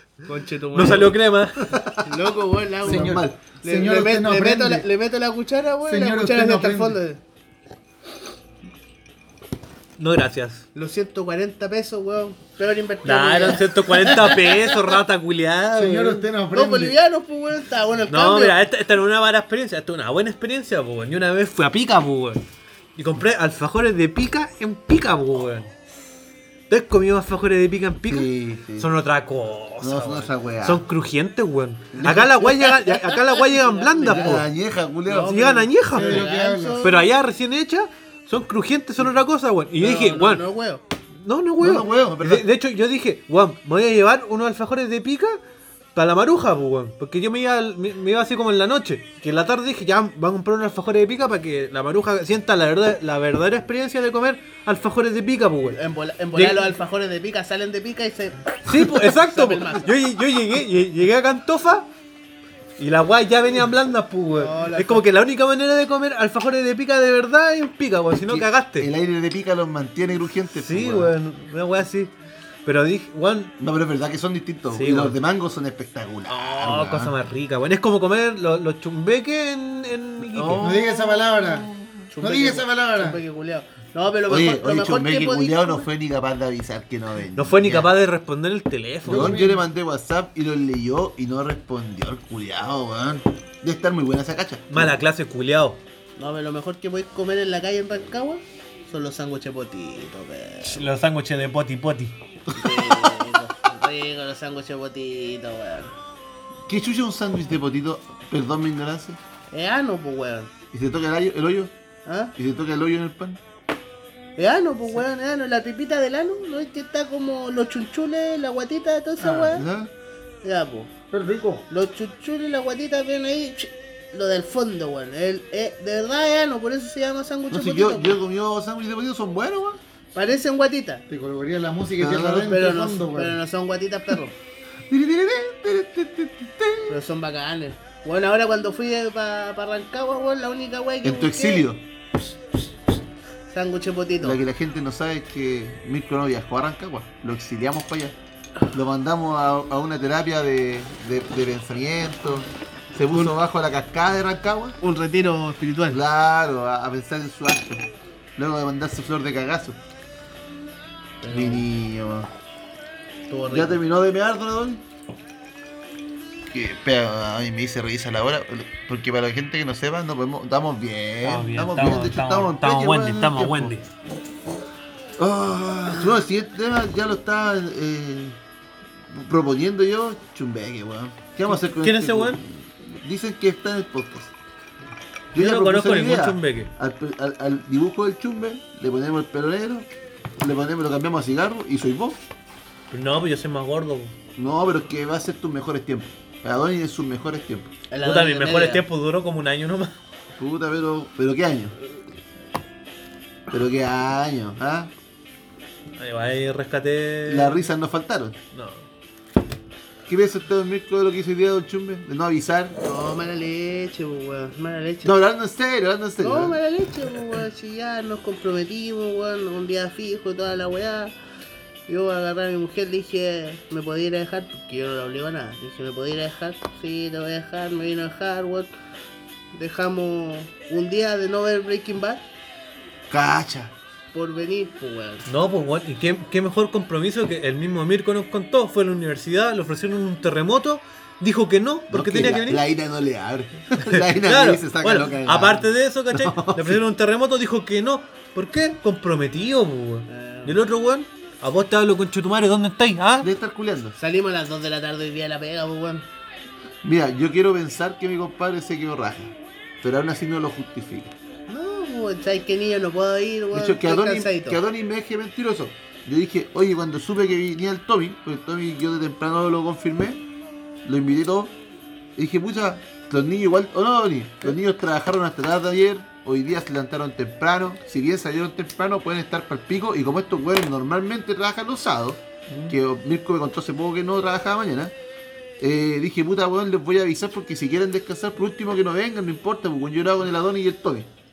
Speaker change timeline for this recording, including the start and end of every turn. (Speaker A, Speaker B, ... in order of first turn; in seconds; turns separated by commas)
Speaker A: 0.2-1.1, Speaker B: 0.7-1.8, Speaker C: 1.6-2.1, Speaker A: 2.0-7.2, Speaker C: 2.8-3.4, Speaker D: 2.8-4.9, Speaker D: 5.8-7.0, Speaker B: 10.0-10.7, Speaker A: 10.8-14.9, Speaker B: 13.0-16.3, Speaker D: 15.7-17.0, Speaker A: 16.5-18.6, Speaker B: 18.1-22.4, Speaker B: 23.0-25.7, Speaker B: 26.7-34.5, Speaker C: 28.1-28.9, Speaker C: 29.8-30.9, Speaker C: 31.9-32.3, Speaker A: 32.3-34.5, Speaker C: 34.0-35.4, Speaker A: 35.1-37.0, Speaker B: 35.3-36.3, Speaker D: 35.9-37.0, Speaker B: 36.8-40.4, Speaker A: 39.8-40.8, Speaker B: 41.2-45.4, Speaker C: 41.6-42.5, Speaker B: 46.0-55.8, Speaker A: 55.6-59.9, Speaker B: 56.4-56.7, Speaker B: 58.6-61.9, Speaker B: 62.8-68.9, Speaker A: 64.4-65.0, Speaker C: 68.2-71.1, Speaker B: 70.5-72.1, Speaker B: 72.7-73.5, Speaker C: 73.6-77.2, Speaker B: 74.7-75.2, Speaker B: 76.3-80.7, Speaker C: 80.4-82.1, Speaker D: 80.6-83.2, Speaker A: 82.1-85.9, Speaker C: 84.3-87.9, Speaker B: 87.4-89.4, Speaker C: 89.0-94.9, Speaker D: 89.1-89.6, Speaker B: 94.7-95.8, Speaker A: 96.2-100.9, Speaker B: 100.7-102.2, Speaker C: 102.5-103.0, Speaker A: 102.5-106.0, Speaker C: 106.7-109.2, Speaker A: 109.5-110.5, Speaker C: 110.7-111.7, Speaker A: 112.1-112.3, Speaker C: 112.4-113.4, Speaker A: 114.4-119.7, Speaker D: 119.2-119.6, Speaker C: 119.5-119.9, Speaker A: 120.4-120.9, Speaker D: 121.1-121.7, Speaker A: 121.7-128.2, Speaker C: 127.5-129.8, Speaker A: 130.2-131.0, Speaker D: 131.1-133.4, Speaker C: 132.0-132.6, Speaker A: 132.4-134.4, Speaker C: 134.9-137.0, Speaker A: 136.9-141.7, Speaker C: 141.0-141.8, Speaker A: 143.5-144.4, Speaker C: 144.2-148.2, Speaker C: 148.7-154.8, Speaker A: 154.8-156.0, Speaker C: 155.9-159.8, Speaker A: 161.2-161.7, Speaker C: 161.3-162.3, Speaker A: 163.3-163.8, Speaker C: 163.5-164.8, Speaker C: 166.5-173.8, Speaker B: 171.2-173.9, Speaker C: 175.2-178.4, Speaker C: 179.1-184.3, Speaker B: 181.8-182.4, Speaker C: 185.3-192.2, Speaker B: 185.4-186.7, Speaker B: 192.9-194.2, Speaker C: 194.4-197.7, Speaker A: 197.9-198.8, Speaker B: 198.0-200.0, Speaker C: 200.4-201.8, Speaker C: 203.5-204.9, Speaker B: 206.0-207.7, Speaker C: 207.3-208.4, Speaker B: 208.5-208.9, Speaker C: 210.1-212.8, Speaker A: 212.8-215.2, Speaker C: 215.0-216.6, Speaker A: 216.2-221.2, Speaker A: 221.9-228.8, Speaker A: 229.5-232.2, Speaker C: 233.1-233.7, Speaker A: 234.1-235.3, Speaker B: 235.3-242.6, Speaker C: 241.9-246.8, Speaker B: 243.8-253.3, Speaker A: 250.1-250.6, Speaker C: 253.2-254.0, Speaker A: 254.0-256.1, Speaker C: 256.8-261.1, Speaker A: 261.5-264.6, Speaker C: 263.5-270.2, Speaker C: 270.8-271.6, Speaker C: 272.1-284.9, Speaker D: 282.5-282.8, Speaker C: 285.6-291.1